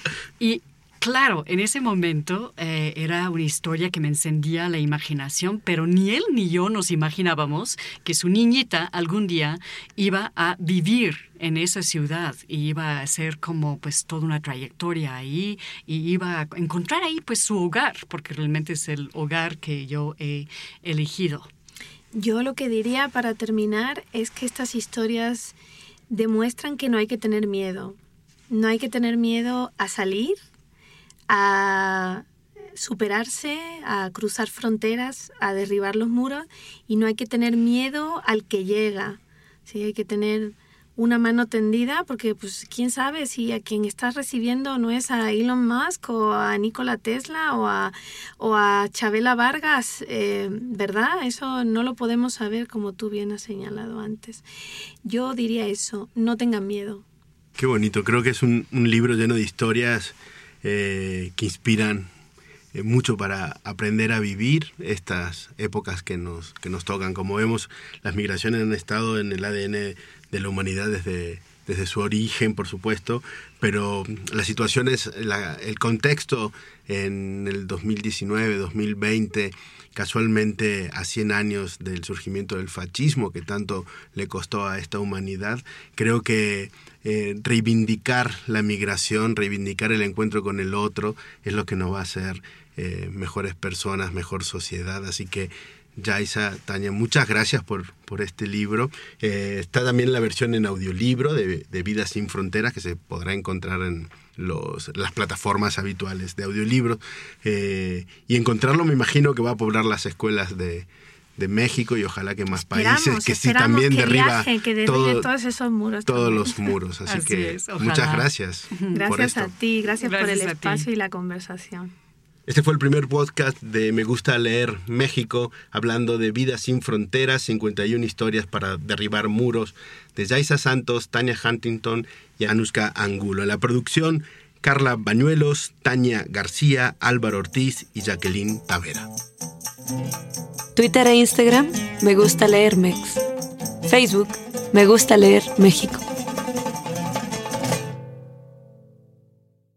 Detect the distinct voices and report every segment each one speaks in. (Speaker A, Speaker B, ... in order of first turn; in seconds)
Speaker A: 0.4-21.5, 117.1-119.0, 120.0-120.9
Speaker B: 22.1-25.6, 26.1-28.0, 28.5-30.4, 31.3-54.4, 55.0-57.0, 112.6-116.5, 118.9-121.9
Speaker C: 57.6-62.1, 62.7-115.3, 116.1-119.5, 122.5-139.1
Speaker D: 140.8-143.2, 143.9-146.1